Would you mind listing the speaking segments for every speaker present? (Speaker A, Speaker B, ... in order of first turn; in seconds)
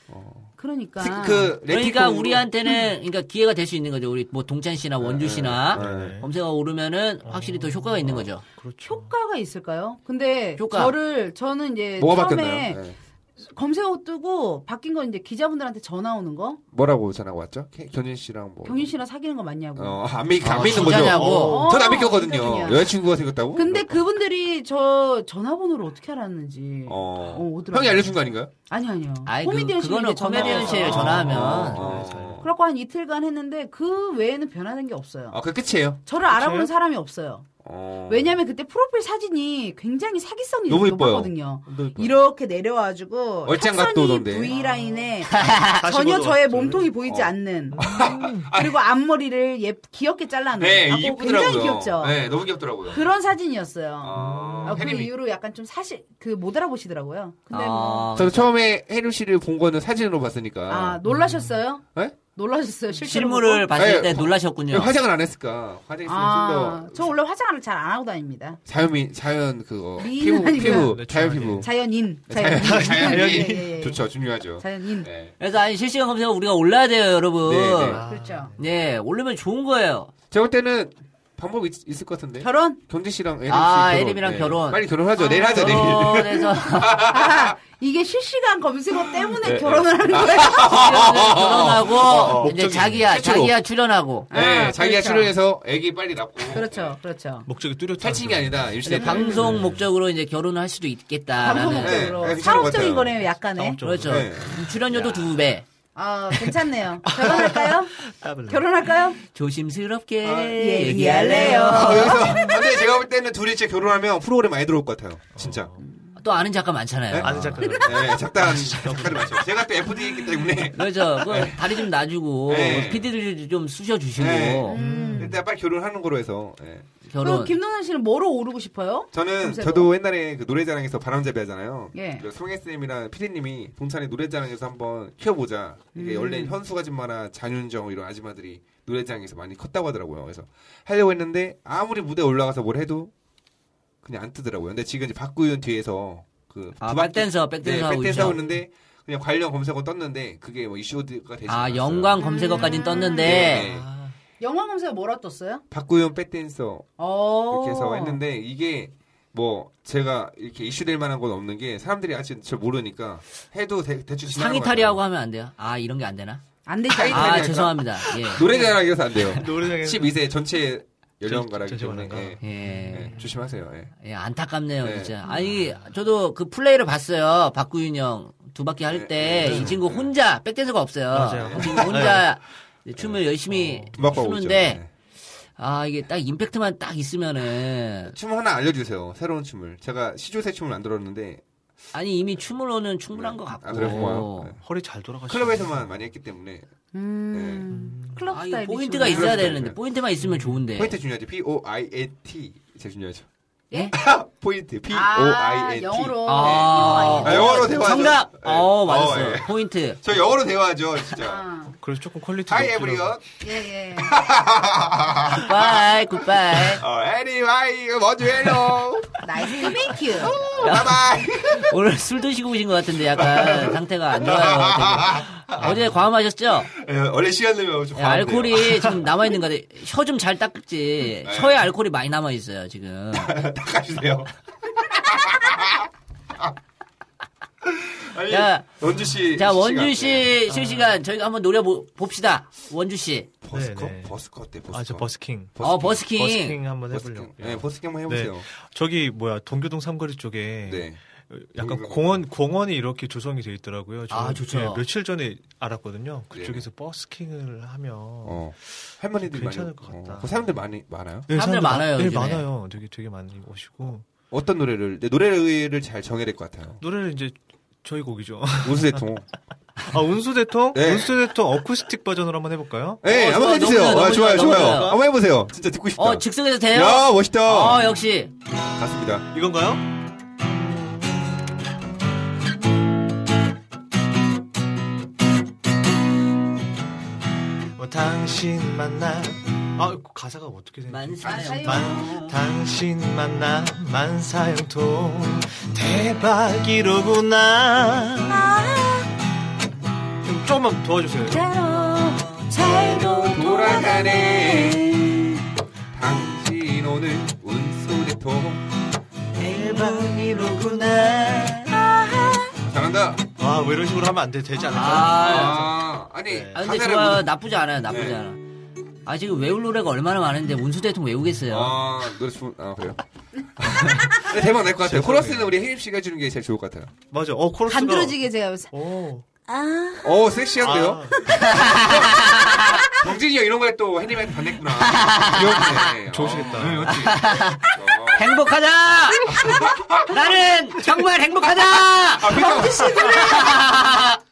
Speaker A: 0.1-2.5, 5.0-6.2, 12.0-12.9, 16.7-18.9, 19.8-24.0, 26.9-28.5, 30.3-32.5, 35.3-36.0, 37.6-38.4, 40.7-42.1, 43.4-44.5, 47.0-48.8, 50.6-53.1, 54.0-55.1, 58.1-61.0, 63.7-67.1, 68.7-71.7, 72.3-75.3, 77.4-78.0, 80.3-87.5, 89.1-93.5, 94.3-97.0, 98.0-99.6, 101.7-103.2, 104.0-105.2, 110.2-115.7, 117.1-121.6, 122.5-123.1, 124.2-126.8, 129.1-143.1, 144.0-153.8, 155.7-156.9, 157.5-165.0, 166.9-173.9, 174.8-175.1, 178.9-180.1, 181.4-182.2, 183.9-184.9, 188.1-191.4, 193.1-194.6, 195.3-196.6, 197.3-197.7, 199.0-199.8, 200.7-203.2, 203.9-211.4, 212.5-215.9, 216.5-221.8, 223.2-225.7, 226.7-229.1, 231.2-231.6, 233.1-234.3, 235.0-235.9, 237.6-240.3, 243.4-246.0, 246.9-248.4, 250.6-251.0, 251.6-252.2, 256.3-256.6, 258.2-261.3, 264.3-266.8, 268.6-269.3, 270.7-271.1, 273.0-277.9, 278.8-279.3, 302.9-305.0, 305.9-308.6, 312.6-313.2, 314.9-317.3, 317.9-318.2, 321.5-323.0, 323.6-326.9, 330.0-331.1, 331.6-332.1, 332.8-338.3, 339.3-340.1, 342.2-343.4
Speaker B: 0.6-1.5, 8.8-12.8, 13.4-16.6, 18.6-20.0, 20.8-23.0, 23.5-28.1, 28.7-31.2, 32.4-35.4, 36.0-37.5, 38.1-47.8, 48.5-52.2, 52.9-58.1, 60.7-63.8, 66.0-68.6, 70.0-70.9, 71.6-74.0, 74.6-75.1, 78.0-78.5, 82.4-82.8, 85.2-86.2, 87.0-91.1, 94.3-95.3, 96.4-97.5, 98.9-99.5, 101.3-103.8, 105.9-109.2, 110.6-112.7, 117.6-118.2, 124.7-125.4, 127.2-129.9, 131.9-132.2, 135.9-136.6, 152.2-153.4, 154.4-155.6, 157.0-158.2, 166.7-167.7, 196.9-199.6, 203.7-204.0, 204.9-208.2, 211.2-211.8, 213.4-214.2, 219.2-220.6, 291.2-292.1, 298.4-299.1, 301.4-301.8, 302.5-304.8, 327.7-328.7, 329.5-330.1, 332.5-333.0, 337.9-338.2, 339.3-339.9, 342.2-343.7
Speaker C: 1.7-8.4, 10.6-10.9, 20.4-21.6, 29.2-31.8, 45.3-45.8, 57.5-58.5, 63.0-64.9, 75.4-78.0, 78.6-80.1, 83.5-84.8, 85.5-87.0, 90.4-94.3, 98.8-102.2, 103.8-105.6, 109.2-112.3, 116.2-117.7, 120.7-124.8, 127.0-127.5, 146.8-148.4, 151.5-153.7, 164.3-166.4, 167.0-168.4, 172.4-173.2, 174.0-184.8, 185.6-188.2, 191.9-194.5, 198.3-201.0, 206.2-210.0, 215.4-216.8, 220.6-226.7, 227.9-233.4, 238.3-238.7, 239.3-243.3, 245.6-246.6, 254.1-254.8, 261.3-262.4, 273.0-275.0, 276.0-278.3, 290.9-292.4, 301.6-304.5, 309.4-311.8, 314.7-315.7, 316.5-318.4, 319.0-321.8, 331.3-332.9, 334.8-335.9, 336.9-344.2
Speaker D: 5.7-6.3, 7.2-9.1, 20.6-21.9, 30.9-32.4, 36.3-36.7, 44.5-45.1, 45.7-46.9, 47.7-48.5, 54.1-54.9, 61.0-61.6, 70.6-71.7, 72.5-73.9, 77.8-78.6, 92.3-93.0, 97.4-99.9, 103.5-104.5, 106.3-106.6, 107.1-109.0, 112.0-112.7, 115.3-115.8, 117.2-120.7, 124.7-125.4, 148.2-148.6, 152.7-154.2, 168.4-170.2, 171.2-173.3, 175.3-175.8, 179.4-179.8, 181.1-182.3, 183.5-184.1, 193.8-195.9, 197.7-198.3, 200.2-200.6, 211.8-213.2, 225.6-225.9, 240.4-241.0, 243.5-244.2, 244.7-260.6, 261.3-264.1, 266.8-269.0, 269.8-273.0, 274.3-275.0, 279.3-279.8, 280.4-281.7, 287.8-298.6, 300.2-301.6, 309.4-311.7, 313.3-316.6, 324.8-325.5, 327.1-328.2, 328.7-329.2, 330.6-331.7, 336.1-337.1